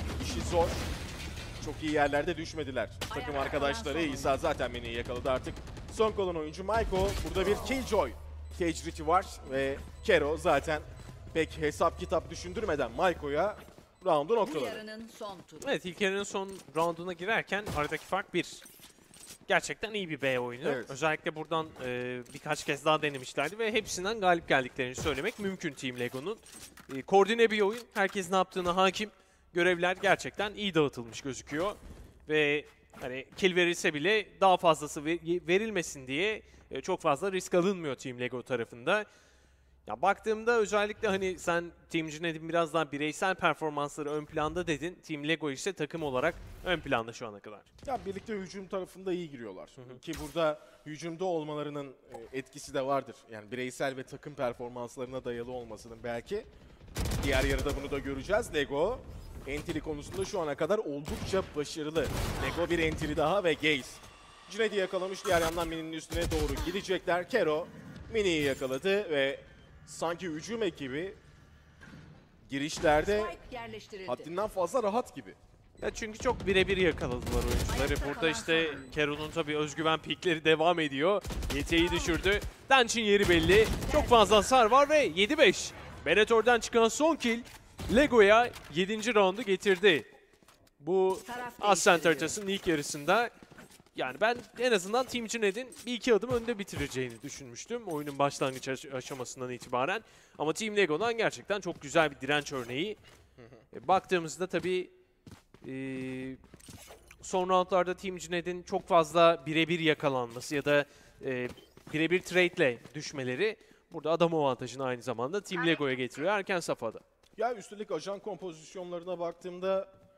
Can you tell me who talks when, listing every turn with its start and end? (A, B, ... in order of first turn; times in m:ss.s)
0:00.2-0:00.9 A
0:01.6-0:14.8 A
0:03.1-0:04.4 B
0:14.4-0:15.8 B
0:15.6-0:18.6 C
0:19.5-0:39.1 C
0:20.6-0:21.0 A
0:39.9-0:47.7 C
0:47.8-0:56.5 A
0:57.2-1:11.2 A
1:12.4-1:13.4 A
1:13.0-1:14.3 B
1:14.1-1:15.4 A
1:15.8-1:30.1 C
1:17.7-1:18.9 B
1:30.8-1:33.3 C
1:31.2-1:32.4 B
1:34.0-1:43.0 C
1:43.7-1:44.9 C
1:45.6-1:46.4 C
1:47.2-1:57.0 C
1:57.4-1:59.9 A